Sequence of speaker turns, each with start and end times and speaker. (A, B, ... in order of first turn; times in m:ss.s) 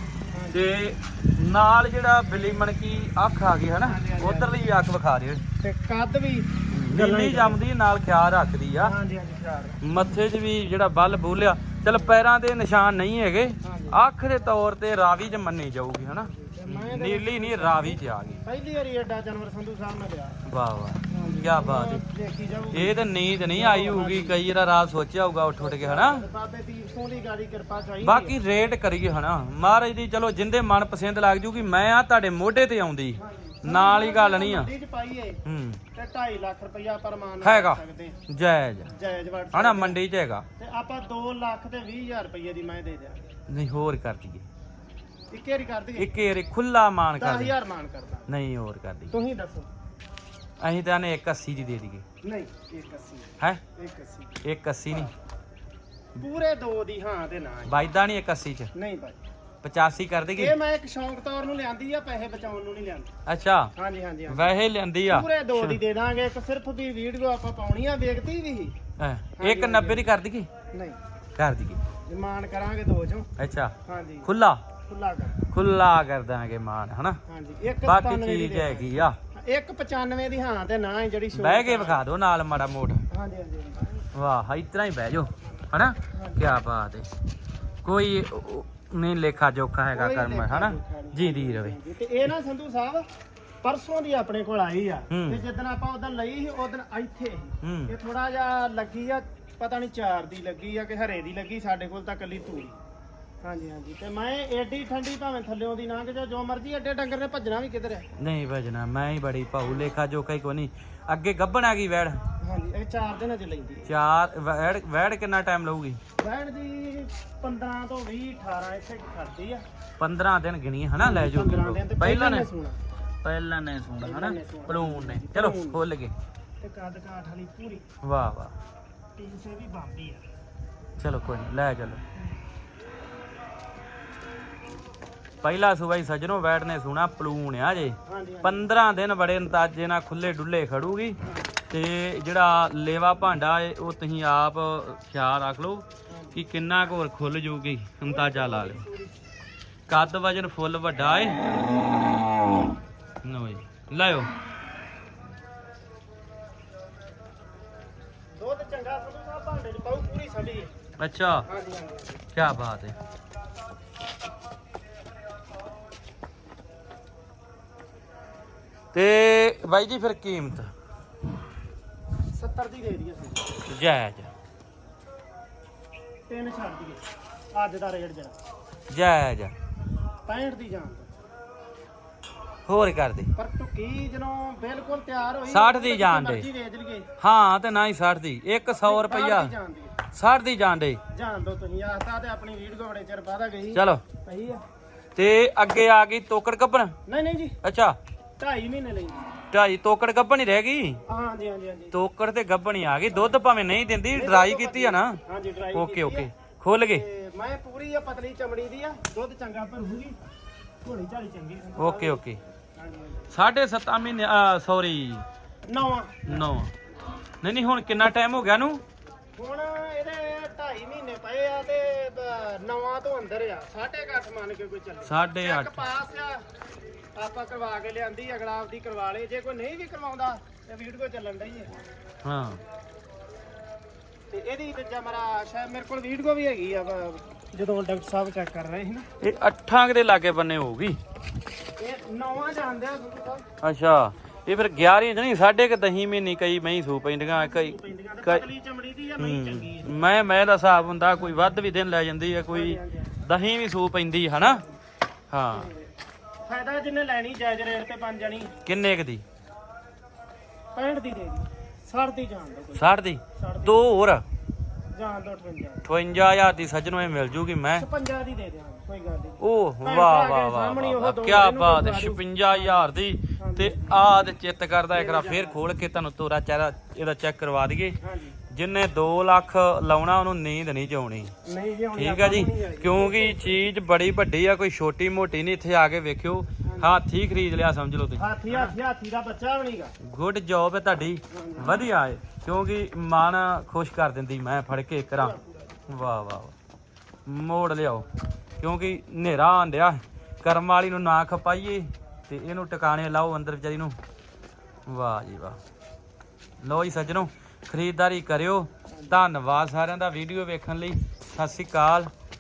0:00.3-0:00.6 A
0:00.5-0:05.4 B
0:03.8-0:04.7 A
0:05.6-0:07.6 A
0:06.7-0:08.9 B
0:08.8-0:09.8 A
0:09.8-0:18.4 B
0:11.9-0:12.2 A
0:13.6-0:14.0 A
0:16.2-0:20.4 A
0:20.5-0:22.0 B
0:21.1-0:23.0 A
0:22.7-0:26.2 B
0:23.5-0:24.4 A
0:25.6-0:28.4 A
0:28.0-0:34.7 B
0:33.2-0:35.4 A
0:35.4-0:35.8 B
0:35.9-0:38.2 A
0:37.4-0:38.9 B
0:38.9-0:40.0 A
0:39.5-0:40.4 B
0:40.6-0:43.3 A
0:43.5-0:44.4 B
0:45.3-0:46.2 A
0:46.0-0:47.5 B
0:47.2-0:48.3 A
0:48.3-0:49.1 B
0:49.1-0:49.7 A
0:50.6-0:52.0 B
0:52.2-0:55.1 A
0:54.4-0:55.1 B
0:56.2-0:57.8 A
0:57.7-0:58.7 B
0:58.7-0:59.2 A
0:59.6-1:00.6 B
1:00.4-1:03.1 A
1:03.2-1:03.7 B
1:03.8-1:04.6 A
1:04.3-1:05.8 B
1:05.1-1:08.8 A
1:09.0-1:10.5 B
1:09.4-1:10.1 A
1:10.7-1:11.0 A
1:11.4-1:11.8 B
1:12.1-1:13.3 A
1:13.4-1:14.6 B
1:13.8-1:14.3 A
1:14.9-1:15.4 A
1:15.5-1:17.2 B
1:17.3-1:22.0 A
1:17.8-1:19.2 B
1:21.3-1:23.0 B
1:23.1-1:24.1 A
1:24.1-1:27.1 B
1:26.1-1:26.6 A
1:27.8-1:31.8 B
1:29.9-1:33.1 A
1:33.6-1:42.8 A
1:35.1-1:35.4 B
1:37.6-1:37.9 B
1:43.4-1:48.1 A
1:48.2-1:52.2 B
1:52.4-1:53.9 A
1:53.9-1:56.0 B
1:56.2-1:59.6 A
2:00.0-2:02.5 B
2:01.0-2:02.8 A
2:03.2-2:06.1 B
2:04.0-2:05.8 A
2:06.6-2:07.8 A
2:08.0-2:08.6 B
2:09.2-2:10.2 A
2:11.0-2:12.0 B
2:15.4-2:21.2 B
2:18.1-2:18.7 A
2:21.7-2:28.8 B
2:26.1-2:26.4 A
2:28.1-2:29.1 A
2:29.9-2:31.4 B
2:33.2-2:34.3 B
2:38.4-2:40.7 A
2:41.0-2:41.4 B
2:41.5-2:42.2 A
2:42.3-2:43.0 B
2:48.9-2:50.7 B
2:52.3-2:53.6 A
2:53.7-2:54.3 B
2:56.3-2:57.0 A
2:57.5-2:58.3 A
2:58.9-2:59.5 B
3:00.2-3:01.1 A
3:02.6-3:03.3 B
3:03.3-3:07.1 A
3:05.5-3:06.5 B
3:07.2-3:09.5 B
3:08.7-3:09.9 A
3:10.1-3:11.0 B
3:11.1-3:14.6 A
3:13.7-3:14.0 B
3:15.2-3:16.9 B
3:17.1-3:17.6 A
3:17.6-3:18.0 B
3:18.4-3:19.4 A
3:19.5-3:21.0 B
3:21.1-3:22.0 A
3:21.9-3:25.2 B
3:24.1-3:26.3 A
3:25.7-3:27.0 B
3:26.9-3:30.2 A
3:30.8-3:32.2 A
3:31.8-3:32.4 B
3:32.8-3:33.3 A
3:33.3-3:35.2 B
3:35.7-3:36.5 A
3:36.2-3:36.7 B
3:37.4-3:38.8 B
3:39.4-3:46.4 A
3:45.0-3:45.8 B
3:47.2-3:51.8 A
3:52.2-3:52.6 B
3:54.3-3:59.1 A
3:59.2-4:01.0 B
4:01.8-4:03.4 A
4:03.6-4:08.4 B
4:07.3-4:10.0 A
4:09.2-4:14.6 B
4:12.5-4:13.2 A
4:14.4-4:14.7 A
4:15.3-4:15.7 B
4:15.5-4:15.9 A
4:16.4-4:18.5 A
4:18.6-4:19.2 B
4:20.8-4:23.9 A
4:22.8-4:24.2 B
4:24.9-4:25.9 A
4:25.8-4:27.9 B
4:27.7-4:34.0 A
4:29.4-4:38.0 B
4:34.9-4:35.6 A
4:38.0-4:38.4 A
4:38.5-4:41.3 B
4:41.4-4:43.6 A
4:41.9-4:48.7 B
4:46.6-4:47.0 A
4:48.2-4:49.9 A
4:50.0-4:55.4 B
4:51.3-4:51.8 A
4:55.1-4:55.8 A
4:55.9-4:56.5 B
4:57.2-4:58.1 B
4:58.6-5:04.0 B
5:04.9-5:05.6 B
5:06.6-5:12.1 B
5:08.9-5:09.2 A